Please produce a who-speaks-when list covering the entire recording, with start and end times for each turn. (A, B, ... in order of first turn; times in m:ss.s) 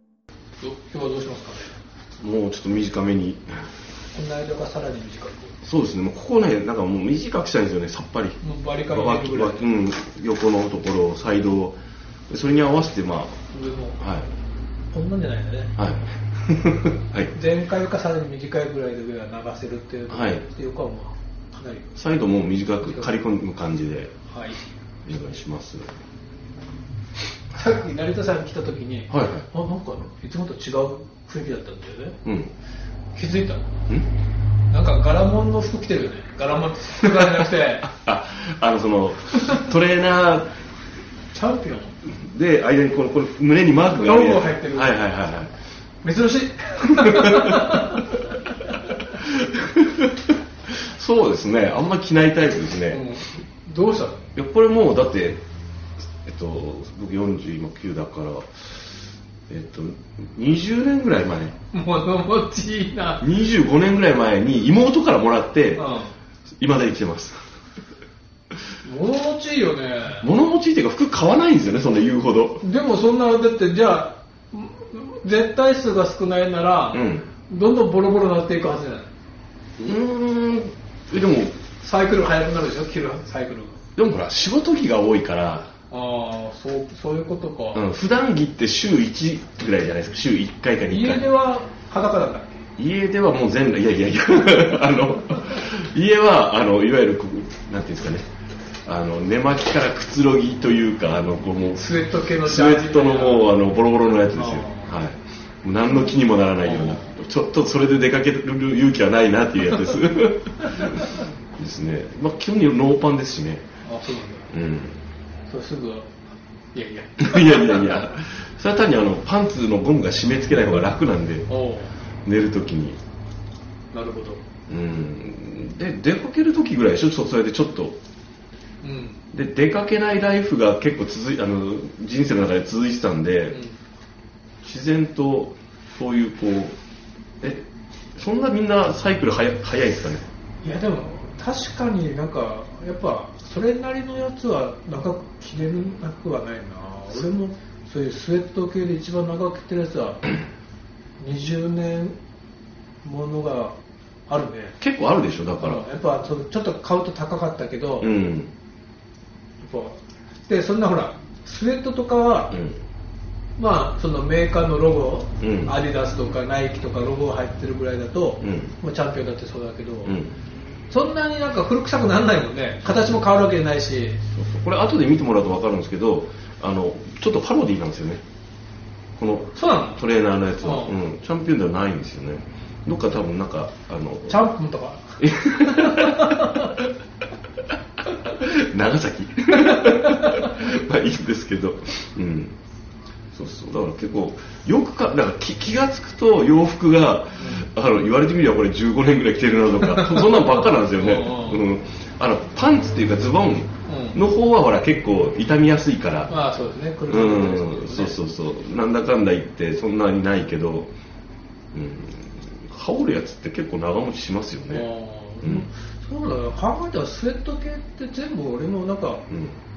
0:00.6-0:01.7 A
0:02.2-0:03.6 B
0:04.1-0:05.6 A
0:05.6-0:11.8 B
0:08.4-0:09.6 A
0:12.3-0:13.4 B
0:13.5-0:14.0 A
0:14.0-0:14.3 B
0:14.9-0:15.7 A
0:15.8-0:17.3 B
0:17.3-0:21.9 A
0:20.1-0:20.4 B
0:22.0-0:24.1 B
0:22.8-0:23.1 A
0:24.3-0:24.6 A
0:25.0-0:25.9 B
0:27.5-0:32.2 A
0:29.1-0:29.5 B
0:32.2-0:32.5 B
0:33.1-0:33.7 A
0:34.7-0:37.9 A
0:37.1-0:40.5 B
0:41.3-0:42.0 A
0:42.1-0:45.5 B
0:43.9-0:44.9 A
0:46.0-0:48.2 A
0:46.9-0:47.9 B
0:49.1-0:53.0 B
0:52.9-0:54.2 A
0:54.4-0:55.4 B
0:56.2-0:58.8 B
0:59.5-1:01.5 B
1:01.7-1:03.2 A
1:03.2-1:05.8 B
1:05.8-1:06.1 A
1:06.6-1:07.4 B
1:08.8-1:10.3 A
1:10.2-1:12.6 B
1:12.6-1:19.1 A
1:16.9-1:17.2 B
1:19.8-1:21.6 B
1:21.8-1:23.8 A
1:24.0-1:25.7 B
1:25.9-1:27.8 A
1:27.7-1:31.2 B
1:30.9-1:32.6 A
1:32.8-1:38.3 B
1:38.8-1:53.6 B
1:41.8-1:43.5 A
1:44.3-1:44.9 A
1:46.6-1:47.1 A
1:50.8-1:51.0 A
1:53.8-1:54.5 A
1:54.5-1:55.0 B
1:55.5-1:56.1 A
1:56.7-1:58.0 A
1:57.2-2:01.5 B
2:01.5-2:01.9 A
2:02.2-2:03.0 B
2:03.9-2:04.4 A
2:04.7-2:08.0 B
2:08.8-2:09.2 A
2:09.3-2:13.6 B
2:13.5-2:13.8 A
2:14.6-2:16.8 B
2:18.2-2:20.2 B
2:20.6-2:30.3 A
2:31.2-2:32.2 A
2:33.0-2:33.8 A
2:34.3-2:34.8 A
2:34.8-2:35.8 B
2:35.6-2:38.1 A
2:38.0-2:38.5 B
2:39.6-2:42.5 A
2:42.5-2:42.8 B
2:43.6-2:50.2 A
2:45.4-2:45.7 B
2:48.4-2:48.7 B
2:50.0-2:50.3 B
2:50.9-2:54.2 A
2:54.3-2:58.2 B
2:59.2-3:04.4 B
2:59.5-3:00.0 A
3:00.6-3:00.9 A
3:04.3-3:06.7 A
3:05.2-3:06.9 B
3:08.2-3:12.6 B
3:09.6-3:10.5 A
3:13.3-3:26.3 B
3:17.4-3:17.6 A
3:19.8-3:21.6 A
3:23.9-3:24.2 A
3:26.3-3:28.1 A
3:27.1-3:30.9 B
3:31.7-3:34.9 B
3:34.7-3:39.2 A
3:39.3-3:39.6 B